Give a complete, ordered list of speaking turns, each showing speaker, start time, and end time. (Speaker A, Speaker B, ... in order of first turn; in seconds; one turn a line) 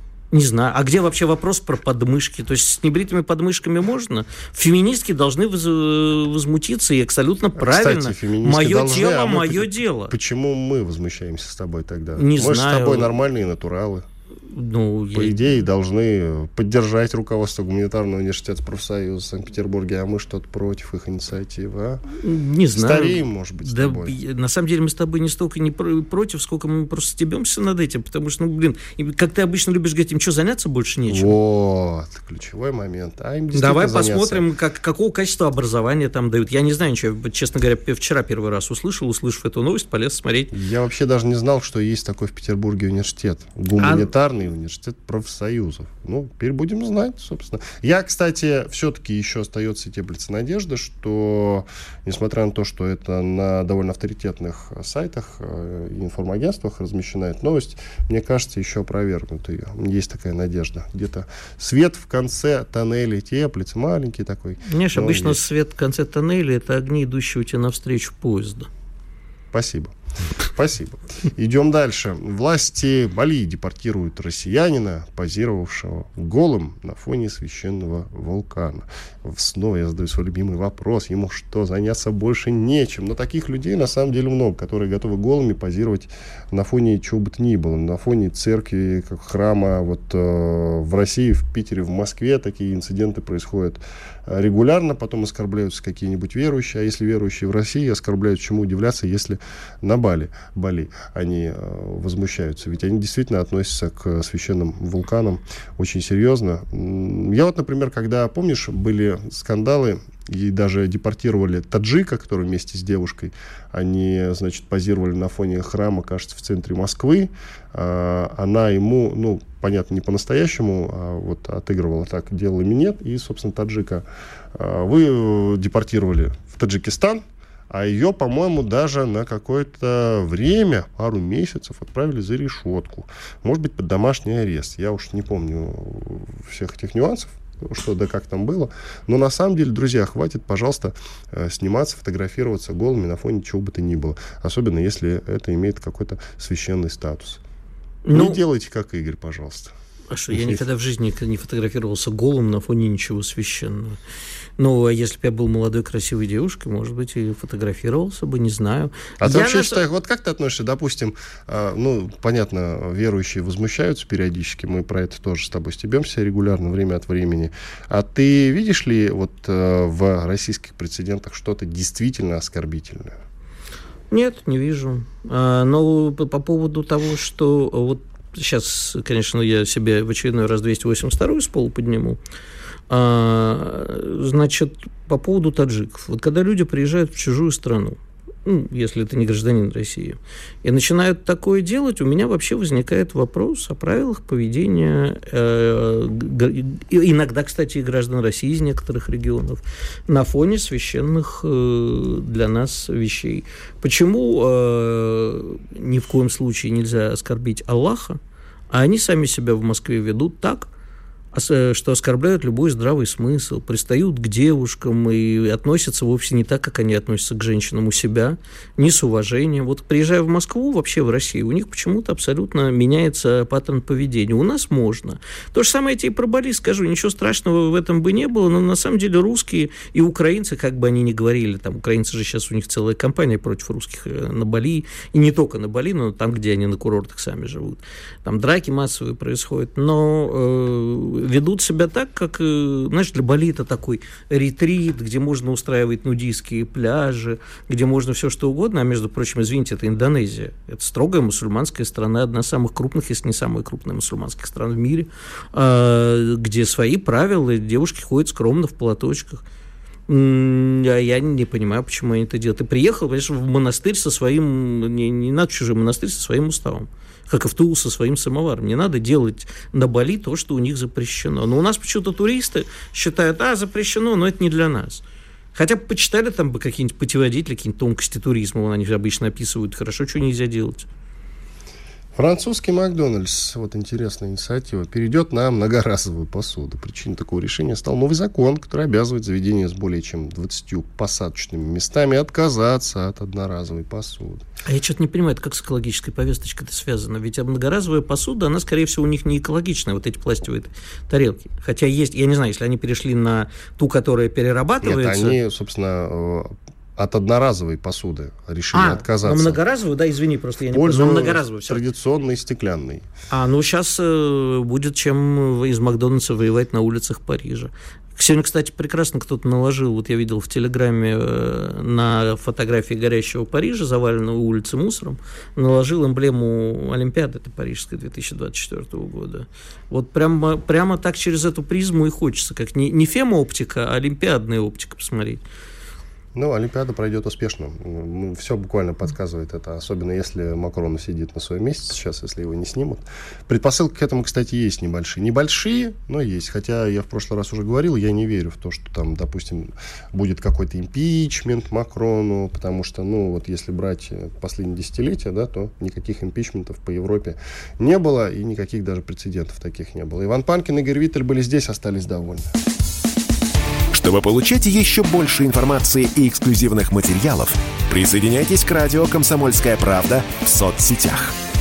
Speaker A: 0.3-10.2
Speaker B: 7.6-14.1
Speaker A: 12.2-13.1
Speaker A: 14.5-15.6
Speaker B: 15.1-22.1
Speaker A: 22.2-31.4
Speaker B: 22.7-24.2
Speaker B: 31.1-34.4
Speaker A: 33.5-40.5
Speaker B: 40.5-65.5
Speaker A: 43.8-44.1
Speaker A: 64.7-68.7
Speaker B: 69.5-147.4
Speaker A: 148.1-148.4
Speaker B: 148.1-149.8
Speaker A: 150.1-154.0
Speaker B: 150.3-150.6
Speaker A: 154.6-159.8
Speaker B: 159.2-173.2
Speaker A: 174.1-182.2
Speaker A: 182.9-208.2
Speaker A: 208.7-210.7
Speaker A: 211.3-259.4
Speaker A: 260.1-275.0
Speaker A: 275.5-280.9
Speaker B: 282.1-294.4
Speaker A: 294.6-305.4
Speaker B: 304.8-309.6
Speaker A: 308.7-311.8
Speaker B: 310.7-313.1
Speaker A: 313.3-335.4
Speaker B: 336.4-362.5
Speaker C: 363.9-371.4